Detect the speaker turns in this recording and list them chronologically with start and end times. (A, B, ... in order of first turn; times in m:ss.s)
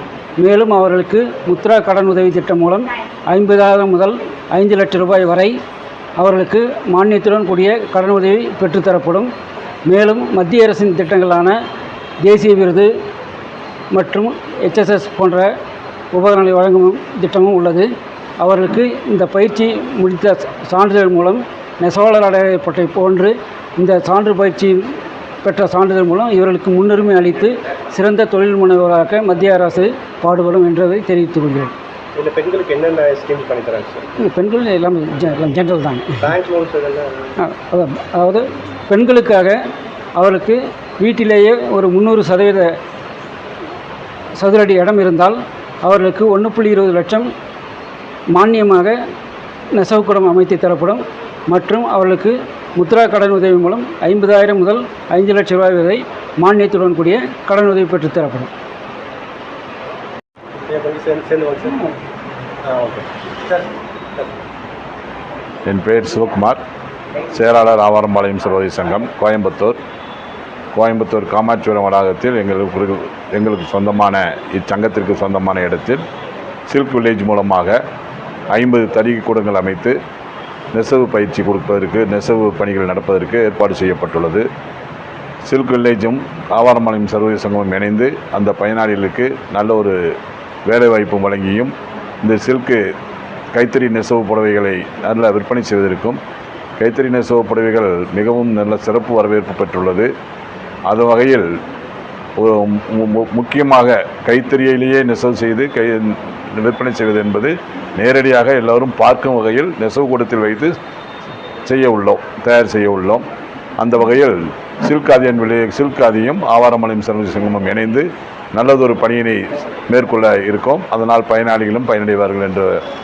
0:00.4-0:05.5 A
0:06.2-0:09.3 A
0:09.8-0:11.6 A
0:12.2-0:12.9 A
0:13.9-0:15.5 A
0:16.1-0:17.9 A
0:18.4-0:24.9 A
0:25.4-0:31.7 A
0:32.2-0:34.0 B
0:34.2-0:36.3 A
0:36.2-0:37.3 B
0:37.4-0:39.6 A
0:40.1-0:42.7 A
0:44.4-0:47.3 A
0:48.3-0:49.0 A
0:49.7-0:58.5 A
1:00.6-1:01.9 B
1:02.6-1:04.4 B
1:05.6-1:06.6 C
1:07.3-1:09.8 C
1:10.7-1:16.0 C
1:16.7-1:17.8 C
1:18.5-1:20.0 C
1:20.7-1:24.4 C
1:25.5-1:30.0 C
1:30.7-1:32.8 C
1:33.5-1:36.2 C
1:36.8-1:40.1 C
1:40.9-1:41.5 C
1:42.4-1:50.7 C
1:51.6-1:53.2 C
1:53.8-2:02.7 C